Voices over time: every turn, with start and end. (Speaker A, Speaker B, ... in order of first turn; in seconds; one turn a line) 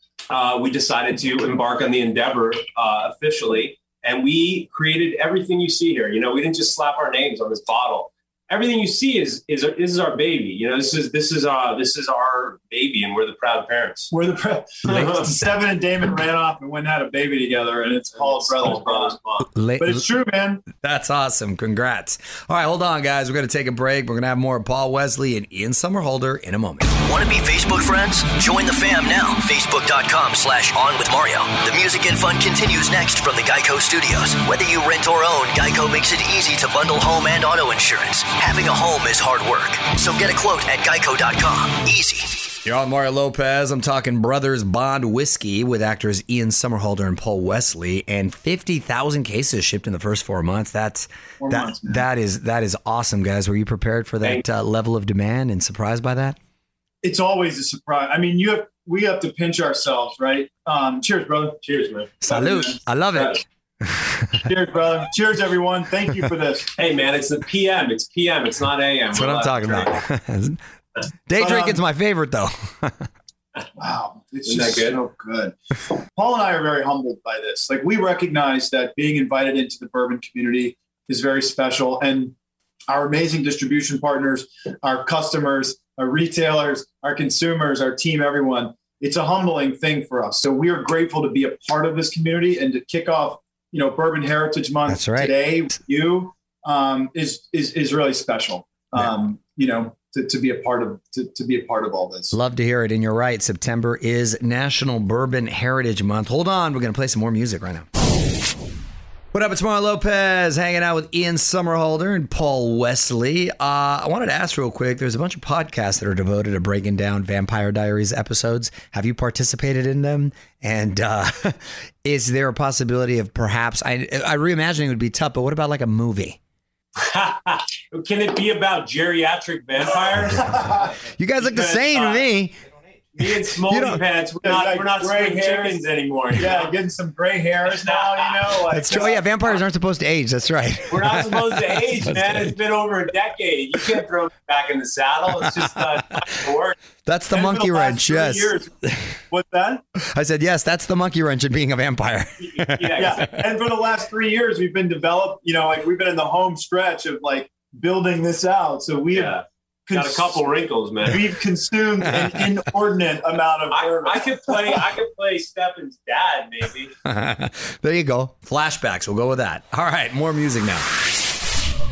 Speaker A: 0.3-14.1
Speaker B: 14.1-19.2
Speaker A: 14.8-15.3
Speaker A: 18.1-19.5
Speaker C: 19.6-20.1
Speaker B: 19.8-20.6
Speaker C: 20.7-26.9
Speaker D: 26.9-42.4
Speaker C: 42.6-56.4
Speaker B: 51.4-52.0
Speaker B: 57.0-61.6
Speaker A: 61.6-62.1
Speaker C: 62.2-64.5
Speaker B: 62.2-62.8
Speaker B: 64.5-66.7
Speaker A: 66.8-70.0
Speaker C: 69.1-70.6
Speaker C: 71.3-73.1
Speaker B: 71.4-71.8
Speaker B: 73.8-75.5
Speaker A: 74.5-75.0
Speaker B: 76.2-82.3
Speaker B: 82.9-102.3
Speaker C: 94.9-95.3
Speaker C: 102.3-107.9
Speaker C: 109.3-126.4
Speaker A: 127.0-132.2
Speaker B: 130.6-130.9
Speaker C: 131.2-132.6
Speaker A: 133.2-136.7
Speaker C: 133.2-134.0
Speaker B: 134.4-135.8
Speaker B: 136.3-139.3
Speaker A: 137.8-139.1
Speaker C: 138.7-142.5
Speaker A: 140.9-146.8
Speaker C: 147.1-149.2
Speaker B: 147.3-148.7
Speaker B: 149.3-149.8
Speaker C: 150.1-153.1
Speaker A: 152.6-153.3
Speaker B: 153.0-160.4
Speaker A: 159.1-161.4
Speaker B: 161.1-164.8
Speaker C: 162.0-162.5
Speaker A: 163.7-166.9
Speaker C: 167.1-170.9